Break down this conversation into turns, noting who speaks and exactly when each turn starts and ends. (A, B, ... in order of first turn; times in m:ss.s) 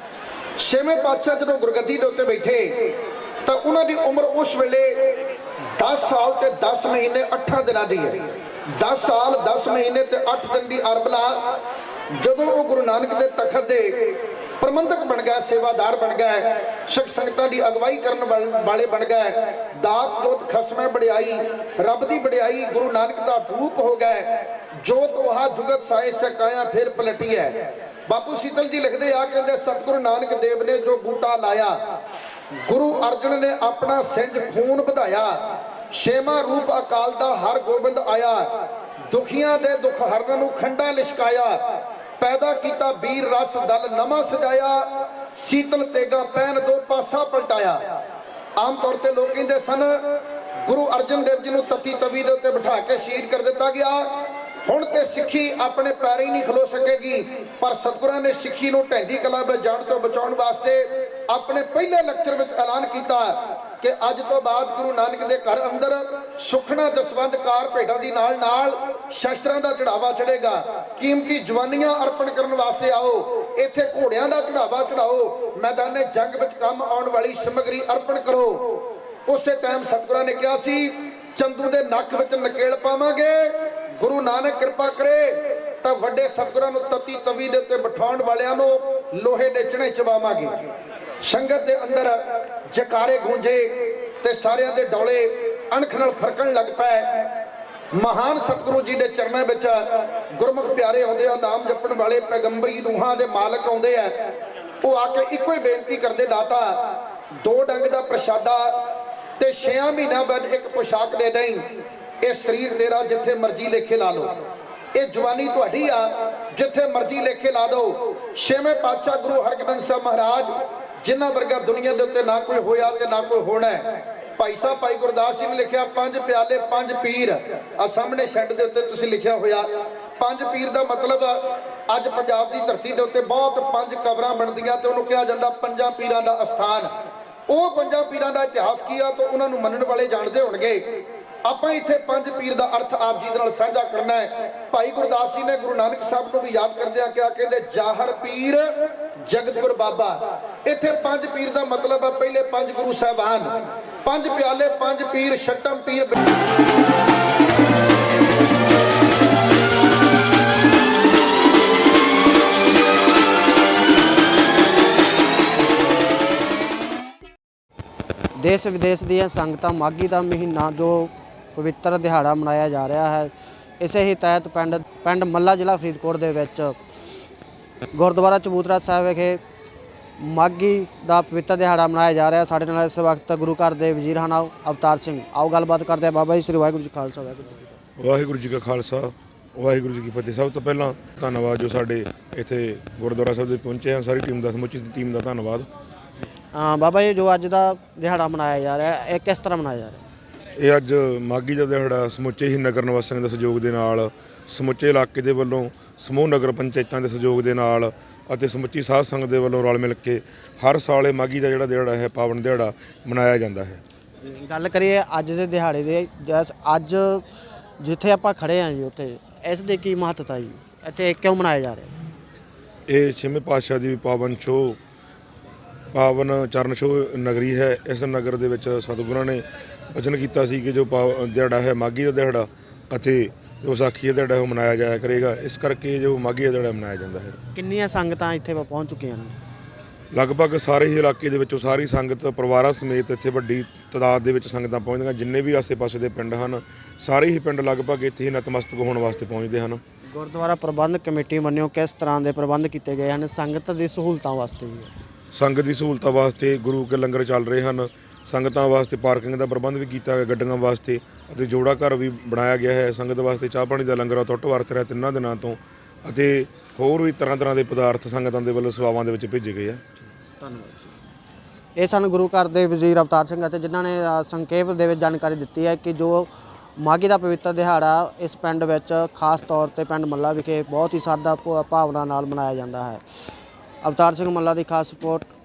0:00.6-0:11.6 A
0:12.1-0:31.8 A
0:32.6-0:35.4 A
0:35.9-0:38.5 A
0:39.1-0:47.8 A
0:48.6-1:30.5 A
1:31.2-1:37.4 A
1:38.0-1:48.9 A
1:49.4-1:51.7 A
1:52.2-1:54.4 A
1:55.0-2:16.9 A
2:17.5-2:33.5 A
2:34.0-2:36.2 A
2:48.4-2:56.8 B
2:57.9-2:59.4 B
3:00.2-3:07.7 B
3:08.0-3:15.7 C
3:16.5-3:20.0 B
3:20.6-3:33.8 C
3:34.2-3:37.2 B
3:37.8-3:41.9 B
3:42.9-3:44.8 C
3:45.9-3:57.4 C
3:57.5-3:59.4 B
4:00.1-4:09.8 C
4:10.1-4:14.9 B
4:15.3-4:29.8 C
4:30.4-4:31.0 B
4:31.8-4:43.0 B
4:43.8-4:45.3 B